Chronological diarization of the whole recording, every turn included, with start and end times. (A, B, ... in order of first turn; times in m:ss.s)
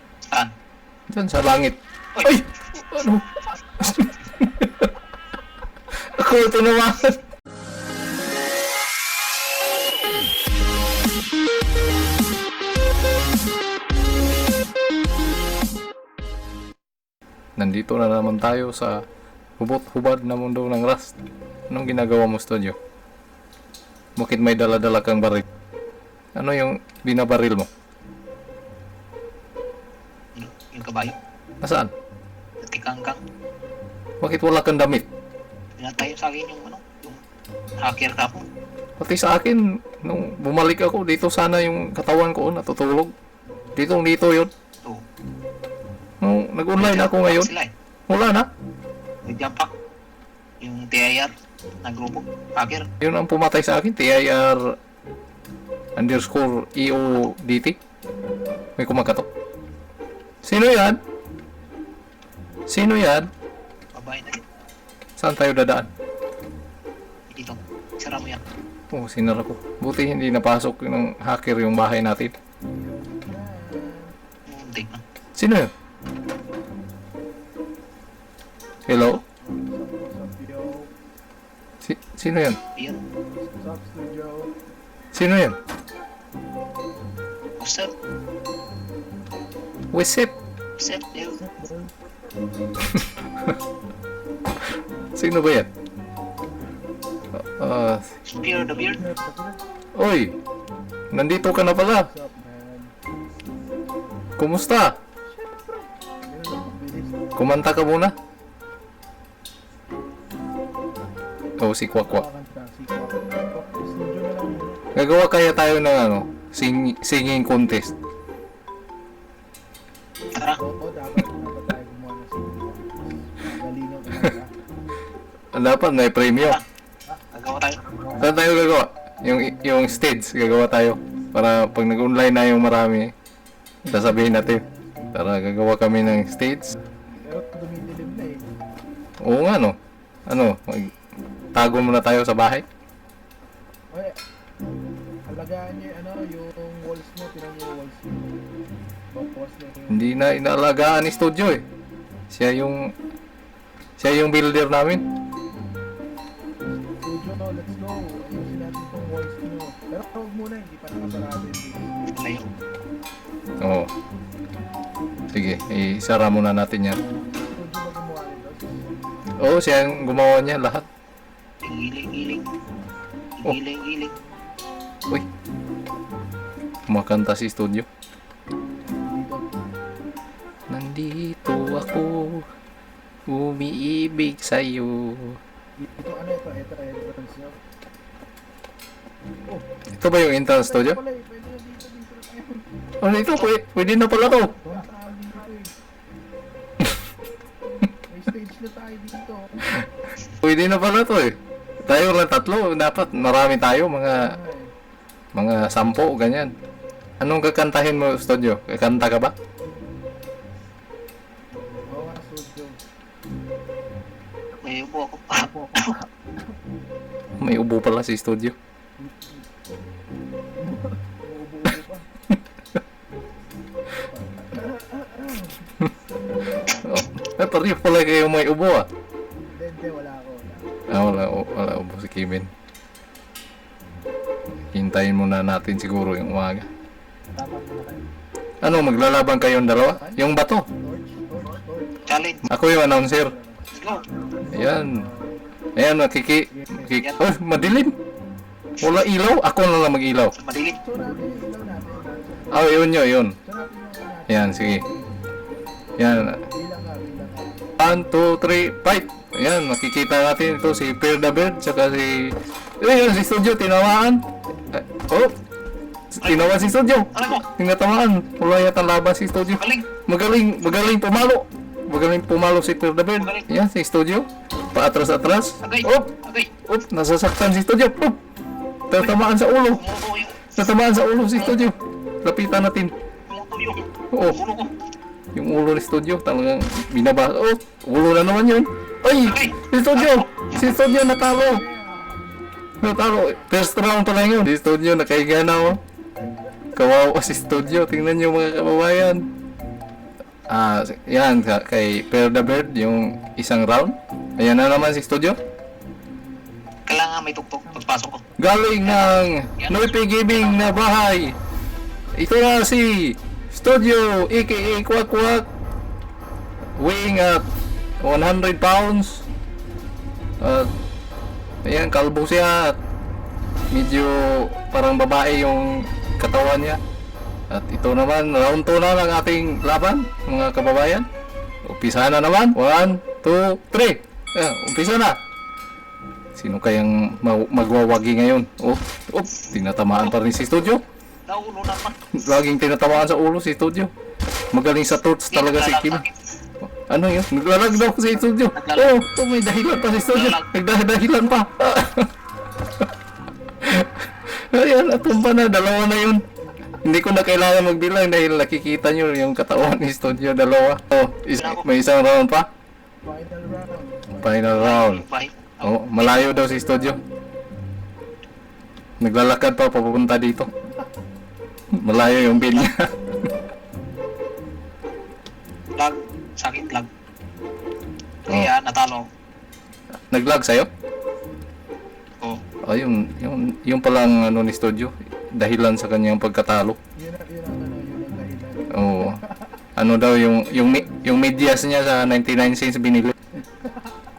0:01.1-0:04.9 A
0:06.0-0:07.2 A
0:17.6-0:19.0 A
0:19.6-0:21.2 A
0:21.7-0:22.8 A
0:24.2-0:25.4 A
0:26.4-0:27.7 A
0:30.4-0:31.2 B
0:31.6-0:31.9 A
0:32.6-0:33.2 B
0:34.2-0:35.1 A
0:35.8-0:37.2 B
0:37.8-0:38.4 B
0:39.0-0:43.1 A
0:43.8-0:44.5 A
0:46.2-0:47.5 A
0:46.8-0:47.7 B
0:48.1-0:48.5 A
0:49.2-0:49.7 B
0:50.6-0:52.9 B
0:53.0-0:54.7 A
0:56.0-0:57.8 A
0:58.8-0:59.3 A
1:00.4-1:01.0 A
1:02.7-1:03.3 A
1:03.9-1:04.4 B
1:05.2-1:05.9 A
1:07.3-1:08.4 B
1:08.9-1:12.3 A
1:12.8-1:14.1 C
1:14.5-1:15.0 B
1:15.4-1:15.7 A
1:18.9-1:19.2 A
1:19.4-1:20.9 C
1:21.8-1:22.6 A
1:23.6-1:24.5 C
1:25.1-1:25.6 A
1:27.6-1:27.9 B
1:29.9-1:30.3 A
1:30.8-1:31.4 B
1:31.3-1:31.9 C
1:32.9-1:33.5 A
1:35.2-1:35.7 A
1:37.4-1:38.2 A
1:38.3-1:39.1 B
1:39.0-1:39.6 C
1:40.0-1:40.4 A
1:41.1-1:42.1 A
1:42.1-1:42.9 C
1:44.4-1:45.0 A
1:45.5-1:47.2 C
1:47.4-1:48.2 A
1:51.6-1:52.2 A
1:52.0-1:54.8 C
1:55.0-1:58.0 A
2:00.3-2:00.6 B
2:00.6-2:04.5 C
2:05.5-2:06.6 A
2:07.3-2:08.1 B
2:08.2-2:13.1 A
2:13.9-2:16.8 A
2:13.9-2:15.1 C
2:17.2-2:18.4 C
2:19.2-2:20.9 A
2:21.5-2:22.7 A
2:23.9-2:24.2 C
2:25.3-2:28.2 C
2:29.1-2:30.2 C
2:29.9-2:31.6 A
2:32.3-2:32.9 A
2:34.0-2:35.0 A
2:37.0-2:42.0 C
2:42.1-2:42.5 B
2:43.6-2:43.9 A
2:45.3-2:47.0 A
2:47.3-2:48.7 C
2:49.4-2:50.9 A
2:51.6-2:52.5 B
2:53.4-2:54.1 B
2:56.9-2:57.9 A
2:58.9-2:59.5 C
3:00.7-3:02.5 A
3:03.3-3:05.4 A
3:05.8-3:07.6 C
3:10.0-3:11.0 A
3:10.6-3:12.7 C
3:13.0-3:14.6 A
3:14.5-3:15.7 C
3:18.1-3:19.6 C
3:20.4-3:24.3 A
3:24.2-3:24.7 C
3:25.4-3:26.5 A
3:27.2-3:29.4 A
3:31.9-3:32.8 C
3:34.6-3:36.0 B
3:37.4-3:38.6 A
3:39.0-3:39.4 C
3:40.6-3:42.1 C
3:43.9-3:45.7 C
3:46.6-3:48.9 A
3:49.5-3:50.7 C
3:50.9-3:52.5 A
3:54.7-3:56.7 A
3:57.5-3:57.9 B
3:58.6-4:00.7 A
3:59.9-4:00.2 C
4:00.8-4:02.2 C
4:02.1-4:02.5 B
4:02.5-4:03.3 A
4:02.8-4:03.7 C
4:03.7-4:04.2 B
4:04.5-4:05.4 C
4:04.5-4:05.1 A
4:05.8-4:08.0 A
4:06.5-4:06.9 C
4:08.8-4:10.4 A
4:10.4-4:10.8 B
4:10.8-4:12.7 C
4:12.5-4:13.4 A
4:13.4-4:15.1 C
4:14.3-4:14.8 A
4:16.0-4:16.4 A
4:16.5-4:17.6 C
4:17.8-4:25.4 A
4:26.1-4:38.2 A
4:26.2-4:26.6 B
4:27.1-4:27.4 B
4:29.5-4:29.9 B
4:33.2-4:33.5 B
4:35.6-4:36.5 B
4:38.9-4:39.9 A
4:39.7-4:40.6 B
4:40.5-4:42.9 A
4:41.4-4:41.6 B
4:43.3-4:44.7 B
4:44.1-4:44.4 A
4:45.4-4:51.6 A
4:49.2-4:50.6 B
4:51.4-4:52.3 C
4:52.8-4:55.8 A
4:56.8-4:59.3 A
5:00.5-5:05.4 A
5:06.9-5:08.2 B
5:08.4-5:11.4 A
5:08.8-5:09.8 B
5:10.4-5:10.8 B
5:12.2-5:15.5 A
5:16.8-5:17.5 A
5:18.0-5:19.3 A
5:20.4-5:20.7 A
5:21.6-5:22.8 A
5:23.7-5:26.8 A
5:27.5-5:31.1 A
5:31.6-5:35.2 A
5:36.4-5:40.8 A
5:41.3-5:42.0 B
5:42.1-5:43.9 A
5:44.5-5:46.0 A
5:45.3-5:46.2 B
5:46.7-5:52.1 A
5:48.6-5:49.0 B
5:49.8-5:50.5 B
5:53.6-5:56.2 A
5:56.8-6:02.5 A
6:01.4-6:01.7 B
6:03.0-6:04.6 C
6:04.2-6:05.0 A
6:04.5-6:06.4 B
6:05.6-6:07.0 A
6:06.2-6:07.0 C
6:09.0-6:10.5 A
6:11.7-6:13.0 A
6:12.4-6:12.7 B
6:15.8-6:16.9 B
6:18.3-6:19.1 B
6:20.1-6:20.7 A
6:22.6-6:26.8 A
6:27.0-6:29.4 C
6:28.7-6:29.2 A
6:29.8-6:33.1 A
6:33.4-6:33.9 C